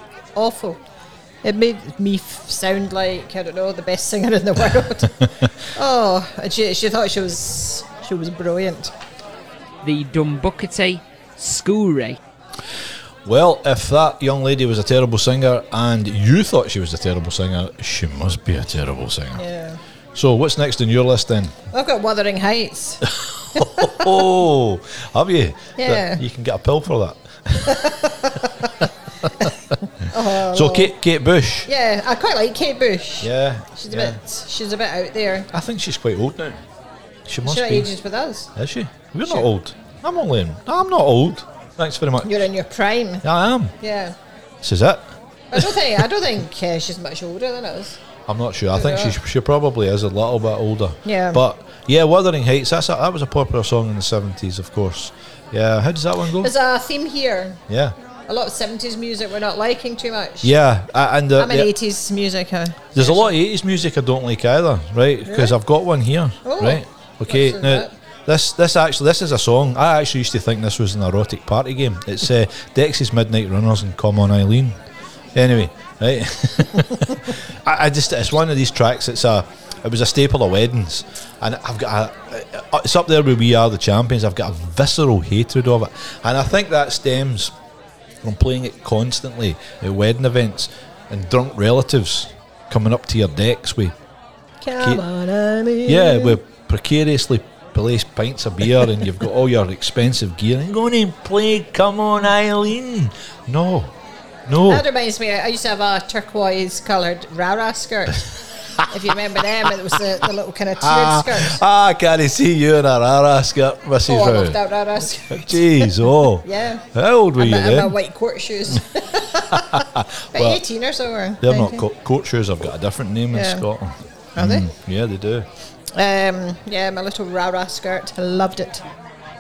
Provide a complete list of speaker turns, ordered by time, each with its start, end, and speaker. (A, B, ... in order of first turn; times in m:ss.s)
0:00.4-0:00.8 A
0:01.4-0:08.9 A
0:09.8-0:12.2 B
0:13.2-0:19.4 C
0:19.4-0:19.8 A
0:20.2-0:21.6 C
0:21.7-0:24.0 A
0:23.5-0:27.8 C
0:25.8-0:26.2 A
0:27.7-0:28.7 A
0:30.1-0:30.9 A
0:30.2-0:31.7 C
0:31.7-0:35.5 A
0:33.2-0:34.2 C
0:35.5-0:36.6 C
0:37.3-0:37.9 C
0:37.4-0:38.5 A
0:38.6-0:42.4 C
0:42.2-0:43.2 A
0:43.2-0:43.7 C
0:43.8-0:44.2 A
0:44.6-0:45.7 C
0:45.5-0:48.0 A
0:48.3-0:56.5 C
0:48.7-0:49.2 A
0:51.0-0:51.4 A
0:56.4-0:57.6 A
0:57.7-0:58.0 C
0:58.3-1:00.5 A
1:00.4-1:01.7 C
1:01.4-1:03.3 A
1:03.0-1:14.8 C
1:05.3-1:05.5 A
1:06.4-1:07.9 A
1:15.4-1:27.6 C
1:28.2-1:34.0 C
1:34.6-1:36.4 A
1:35.8-1:43.9 C
1:44.5-1:44.8 C
1:44.7-1:48.3 A
1:48.8-1:51.6 A
1:50.8-1:54.6 C
1:54.1-1:56.8 A
1:55.3-1:58.0 C
1:57.4-2:01.8 A
1:59.5-2:00.6 C
2:01.4-2:05.5 C
2:03.3-2:03.6 A
2:04.4-2:04.7 A
2:05.9-2:08.8 A